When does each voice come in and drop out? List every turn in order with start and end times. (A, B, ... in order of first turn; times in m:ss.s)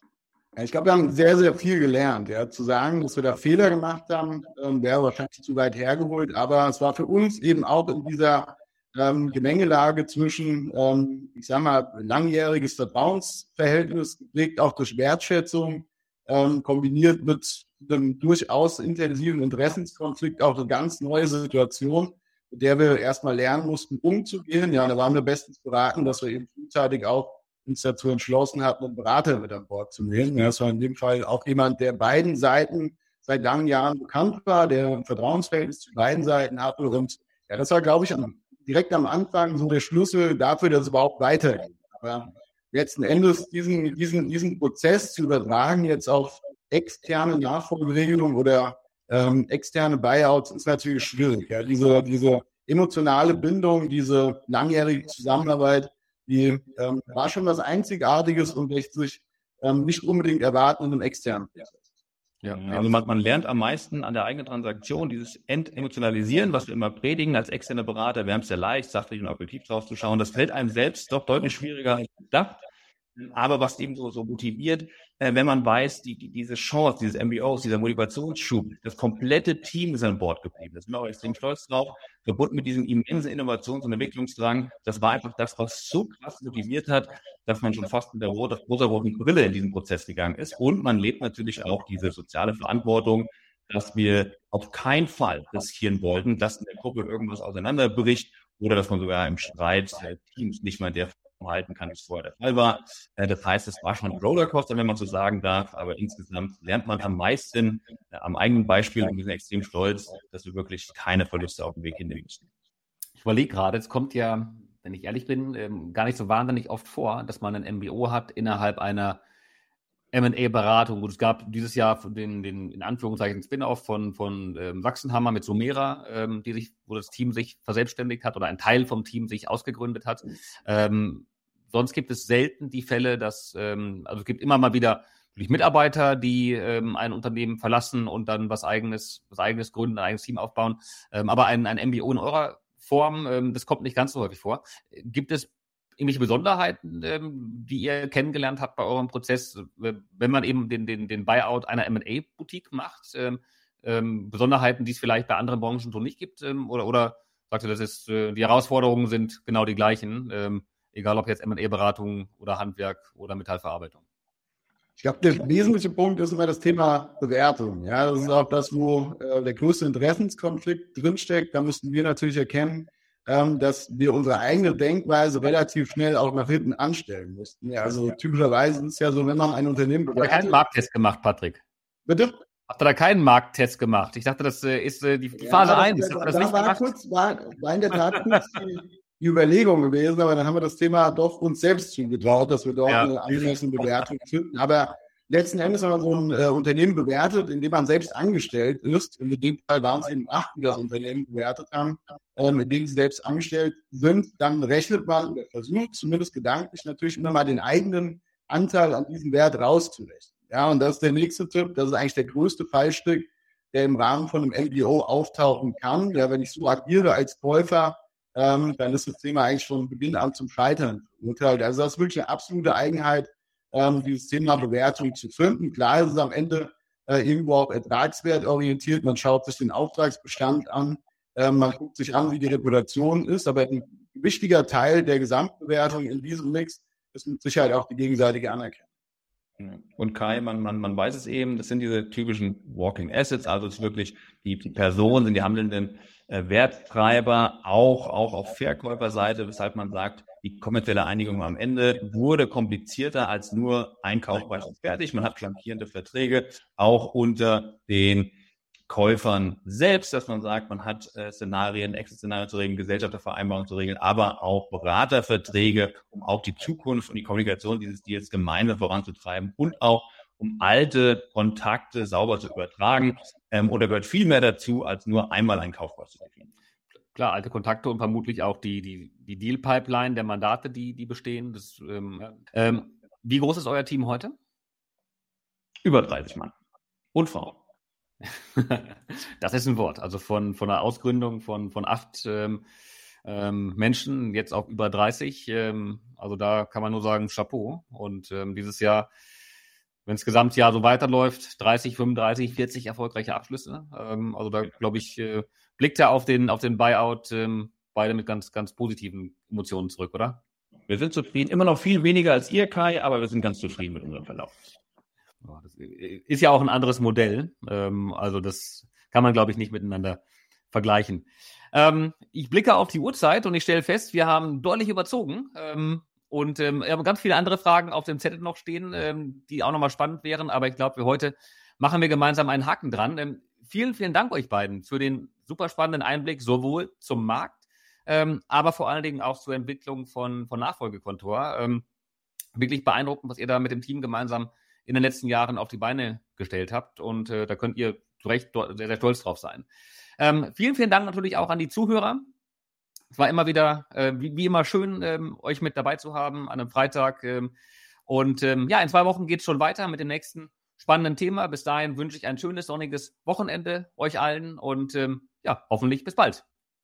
0:00.5-1:01.8 A
1:02.4-1:02.7 B
1:02.5-1:12.6 C
1:13.2-1:52.4 C
1:53.2-1:59.2 B
2:00.1-2:44.0 B
2:45.0-3:00.6 A
3:00.2-3:01.6 B
3:02.1-3:02.4 A
3:02.7-3:06.9 B
3:05.4-3:58.8 A
3:08.1-3:08.5 B
3:12.9-3:13.4 B
3:59.6-4:18.3 C
4:18.9-4:36.5 C
4:37.1-4:44.3 B
4:45.8-4:46.5 C
4:47.1-4:47.6 C
4:48.5-4:52.6 B
4:53.2-4:59.1 B
5:00.1-5:10.4 B
5:10.9-5:14.5 C
5:15.4-5:20.2 B
5:20.7-5:41.8 B
5:42.6-5:49.6 B
5:50.2-5:52.3 B
5:53.1-5:57.5 B
5:58.1-6:06.4 B